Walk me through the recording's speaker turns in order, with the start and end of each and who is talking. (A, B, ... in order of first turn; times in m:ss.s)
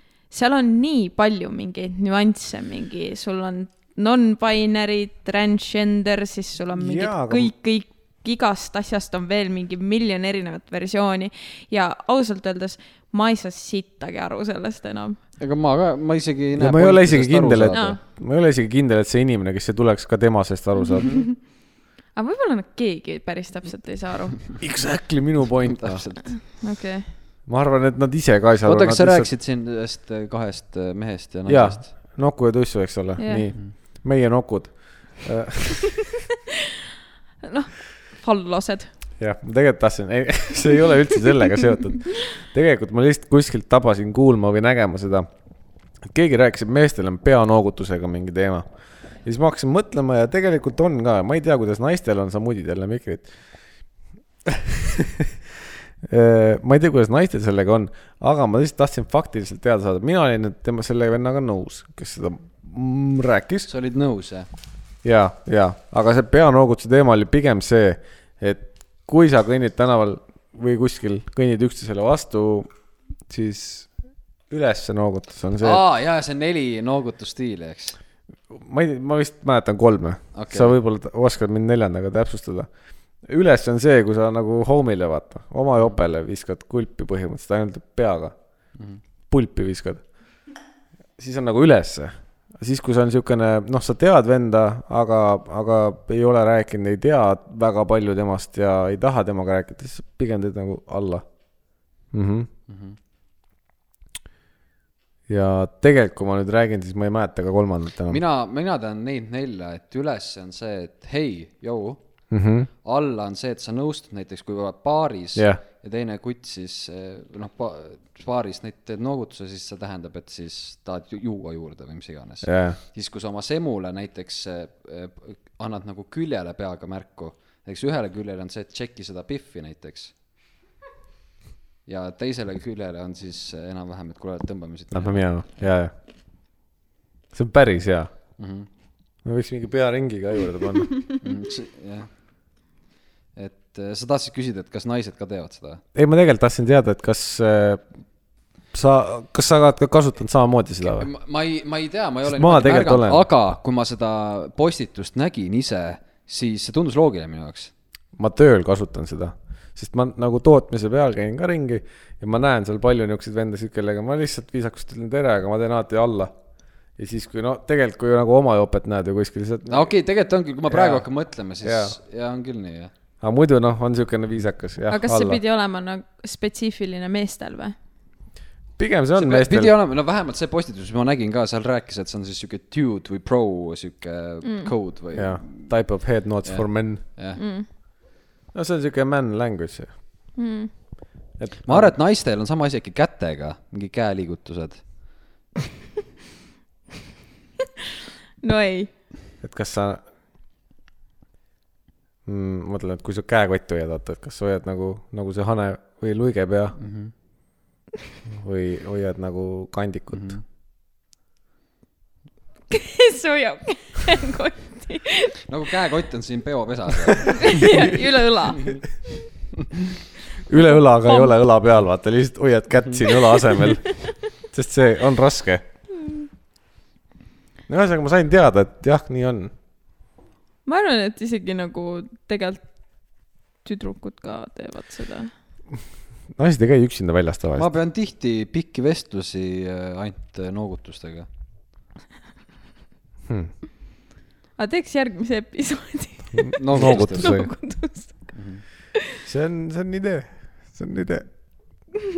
0:00.3-0:15.2 A
0:06.7-0:07.5 B
0:15.4-0:18.0 C
0:16.6-0:21.2 B
0:17.7-0:18.0 A
0:20.7-0:21.4 A
0:21.0-0:21.3 C
0:22.2-0:24.5 A
0:24.6-0:26.1 B
0:25.7-0:26.2 C
0:26.3-0:27.1 A
0:27.5-0:29.3 B
0:28.6-0:31.9 C
0:31.5-0:36.1 B
0:33.2-0:33.5 A
0:37.4-0:38.9 A
0:39.2-0:45.3 B
0:46.0-0:48.6 B
0:49.2-0:53.3 B
0:54.5-0:55.3 B
0:56.0-1:03.7 B
1:03.7-1:04.5 C
1:05.0-1:12.7 B
1:13.3-1:13.9 B
1:14.5-1:15.8 B
1:15.6-1:18.0 C
1:18.5-1:22.7 B
1:20.4-1:20.7 C
1:23.2-1:28.3 B
1:29.3-1:30.0 B
1:31.2-1:41.2 B
1:42.1-1:42.5 B
1:42.7-1:43.0 C
1:45.3-1:48.2 B
1:48.1-1:52.0 C
1:52.3-1:52.7 B
1:52.8-2:10.1 C
1:55.4-1:55.6 B
2:02.4-2:02.8 B
2:11.9-2:15.3 C
2:14.9-2:15.9 B
2:17.3-2:18.1 B
2:18.4-2:18.7 C
2:19.2-2:21.0 B
2:21.2-2:22.1 C
2:23.4-2:25.8 C
2:26.0-2:27.8 B
2:28.7-2:31.1 B
2:30.8-2:37.7 C
2:32.2-2:33.2 B
2:38.2-2:46.3 B
2:47.0-2:49.9 B
2:49.7-2:52.9 C
2:50.7-2:51.0 B
2:51.6-2:52.0 B
2:53.2-2:55.4 B
2:54.9-2:57.8 A
2:58.8-2:59.7 B
2:59.2-3:05.7 C
3:04.4-3:04.7 A
3:05.2-3:07.0 B
3:06.4-3:07.4 C
3:07.4-3:07.7 A
3:08.5-3:09.9 B
3:10.4-3:10.7 A
3:11.4-3:12.0 B
3:11.7-3:14.8 C
3:18.4-3:18.9 A
3:19.4-3:20.0 B
3:22.3-3:26.8 B
3:26.8-3:27.1 C
3:28.3-3:30.4 B
3:30.1-3:30.4 C
3:32.7-3:35.4 A
3:35.5-3:38.8 C
3:37.2-3:38.7 A
3:37.3-3:37.9 B
3:40.5-3:45.6 B
3:40.5-3:41.3 A
3:43.6-3:44.2 A
3:47.7-3:49.5 B
3:50.7-3:52.6 A
3:53.6-3:55.3 A
3:56.3-3:57.7 B
3:57.6-4:01.3 C
4:04.6-4:08.3 A
4:06.6-4:07.4 C
4:06.7-4:07.5 B
4:08.3-4:08.6 C
4:09.2-4:11.3 B